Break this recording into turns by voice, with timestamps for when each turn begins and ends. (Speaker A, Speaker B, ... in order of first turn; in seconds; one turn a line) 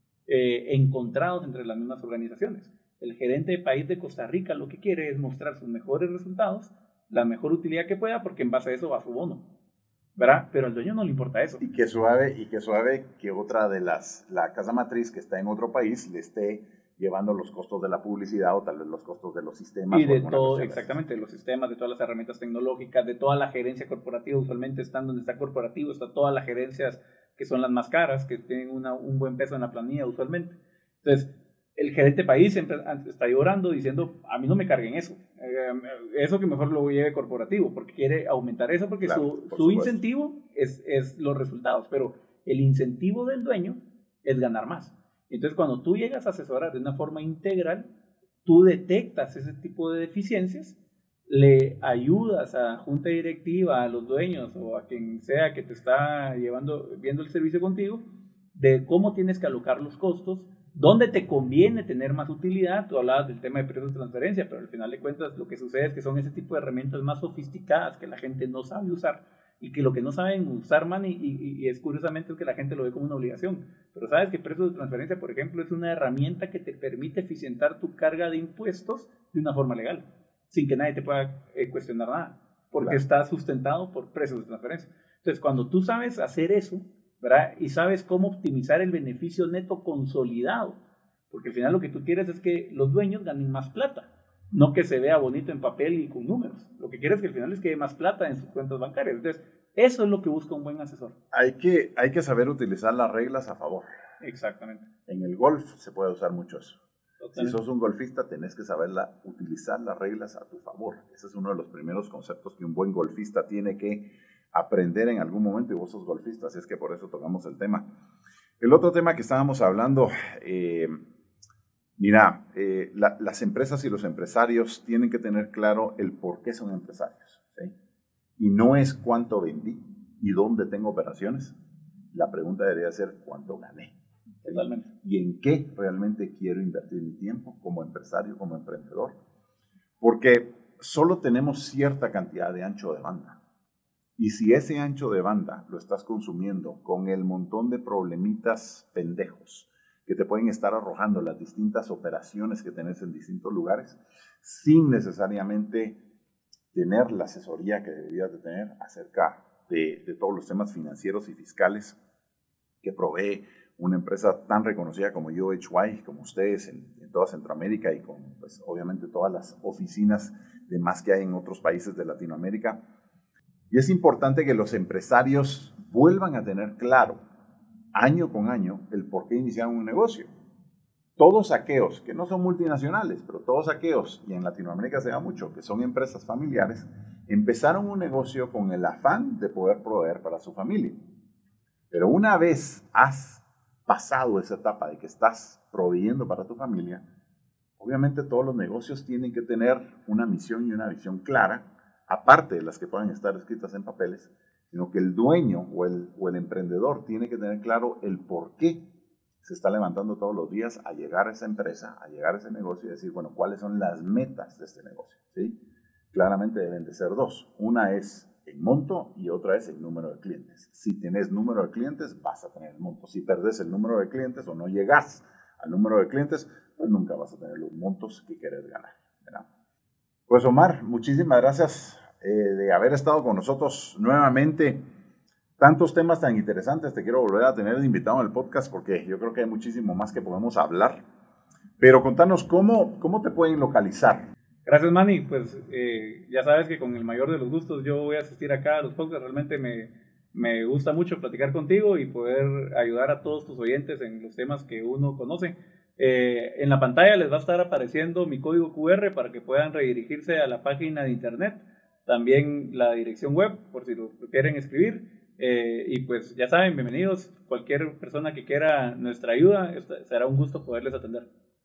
Speaker A: 0.3-9.4
Speaker A: 10.2-11.6
Speaker B: 11.6-21.0
Speaker A: 19.9-47.9
Speaker B: 39.0-40.0
Speaker A: 48.4-101.1
Speaker B: 101.3-103.9
Speaker A: 104.2-104.8
Speaker B: 105.1-106.8
Speaker A: 107.2-107.6
Speaker B: 107.3-117.8
Speaker B: 118.6-121.0
Speaker B: 122.0-127.7
Speaker B: 128.4-131.5
Speaker B: 132.1-139.2
Speaker A: 134.4-134.9
Speaker B: 140.0-143.4
Speaker B: 144.2-156.0
Speaker B: 156.7-162.0
Speaker B: 162.8-172.8
Speaker B: 173.7-177.2
Speaker B: 177.9-180.3
Speaker B: 181.2-191.0
Speaker B: 191.9-197.0
Speaker B: 197.8-208.8
Speaker B: 209.4-215.6
Speaker B: 216.1-229.4
Speaker B: 230.3-234.8
Speaker B: 235.6-241.0
Speaker B: 241.8-244.3
Speaker A: 244.6-271.3